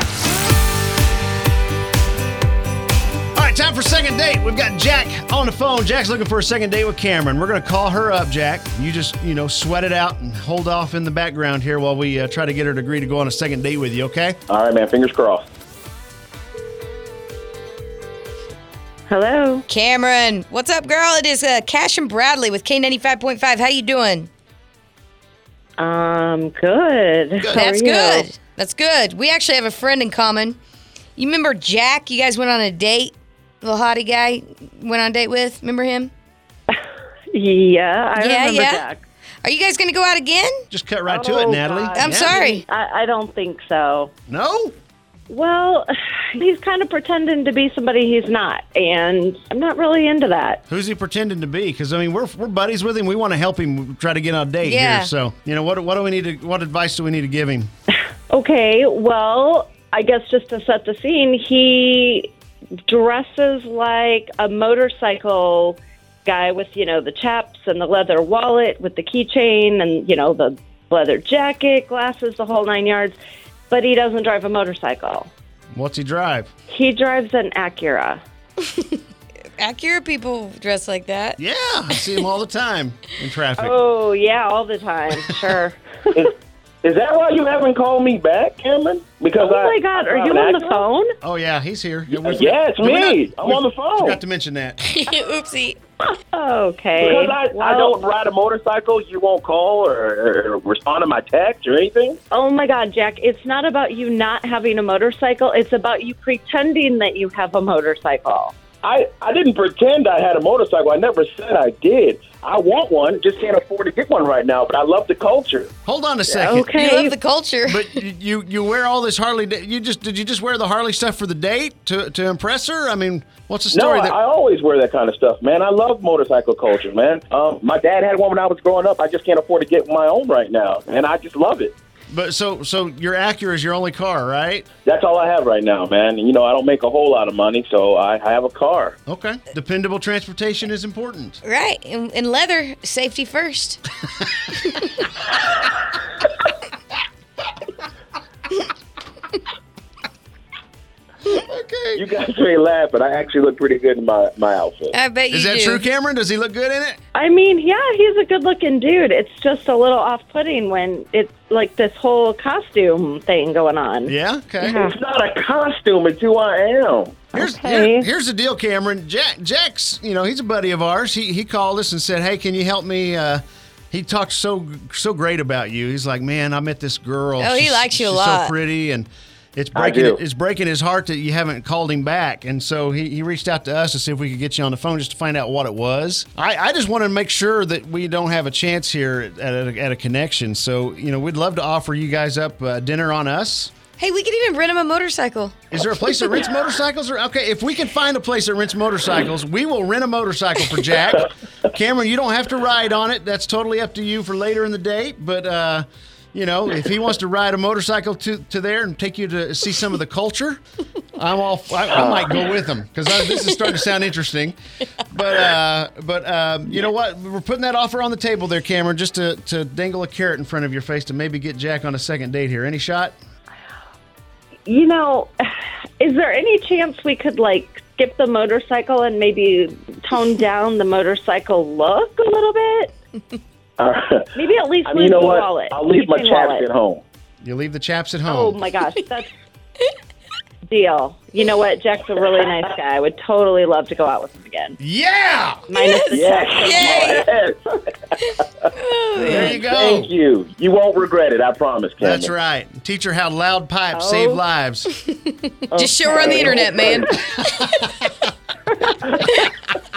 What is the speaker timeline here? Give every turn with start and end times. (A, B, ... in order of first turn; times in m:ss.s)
0:03.3-0:14.4 A
0:14.5-0:15.4 B
0:19.1-0:19.6 C
0:19.7-0:24.3 D
0:25.8-0:28.3 C
0:27.4-0:27.7 A
0:27.5-0:30.6 D
0:31.2-0:36.1 D
0:37.3-0:39.0 C
0:38.2-0:38.8 D
0:39.4-0:40.6 D
0:40.7-0:42.4 A
0:41.1-0:44.1 C
0:42.0-0:42.6 D
0:44.3-0:44.7 A
0:45.3-0:50.6 C
0:50.7-0:57.7 A
0:54.6-0:55.1 D
0:58.3-1:02.3 C
1:02.8-1:13.2 C
1:13.7-1:15.3 C
1:15.7-1:16.5 A
1:16.7-1:18.2 C
1:19.6-1:21.4 D
1:21.4-1:23.8 A
1:23.6-1:25.8 C
1:26.8-1:30.8 B
1:29.4-1:31.1 C
1:31.2-1:34.8 A
1:32.1-1:34.2 B
1:34.8-1:35.8 D
1:36.0-1:38.0 C
1:37.0-1:42.2 B
1:42.3-1:48.5 C
1:48.8-1:55.7 B
1:55.8-1:56.7 A
1:56.3-1:57.1 C
1:56.7-1:57.9 D
1:57.6-2:04.2 A
2:03.7-2:11.7 B
2:12.1-2:14.7 A
2:14.8-2:19.0 B
2:19.1-2:21.4 A
2:21.4-2:23.8 D
2:31.3-2:32.0 A
2:31.9-2:35.0 B
2:34.9-2:35.8 D
2:35.3-2:37.0 A
2:37.1-2:45.0 C
2:44.0-2:44.8 A
2:44.7-2:47.2 B
2:47.3-2:48.1 C
2:47.3-3:13.7 A
2:57.4-2:58.5 D
2:59.7-3:00.2 B
3:14.0-3:15.6 D
3:15.7-3:30.6 A
3:31.1-3:34.6 A
3:31.9-3:32.3 B
3:35.1-3:43.2 A
3:44.6-3:52.9 C
3:53.8-3:54.3 B
3:54.3-3:56.7 C
3:54.8-3:57.0 B
3:57.4-3:58.6 A
3:58.2-3:59.3 C
4:00.7-4:04.8 C
4:04.8-4:05.6 A
4:05.7-4:07.2 C
4:05.7-4:07.3 D
4:06.1-4:08.4 B
4:08.8-4:09.6 D
4:09.2-4:12.3 B
4:09.2-4:10.1 A
4:12.0-4:14.9 A
4:13.9-4:14.4 C
4:15.7-4:16.8 C
4:15.7-4:17.9 D
4:16.2-4:16.9 B
4:17.1-4:18.3 A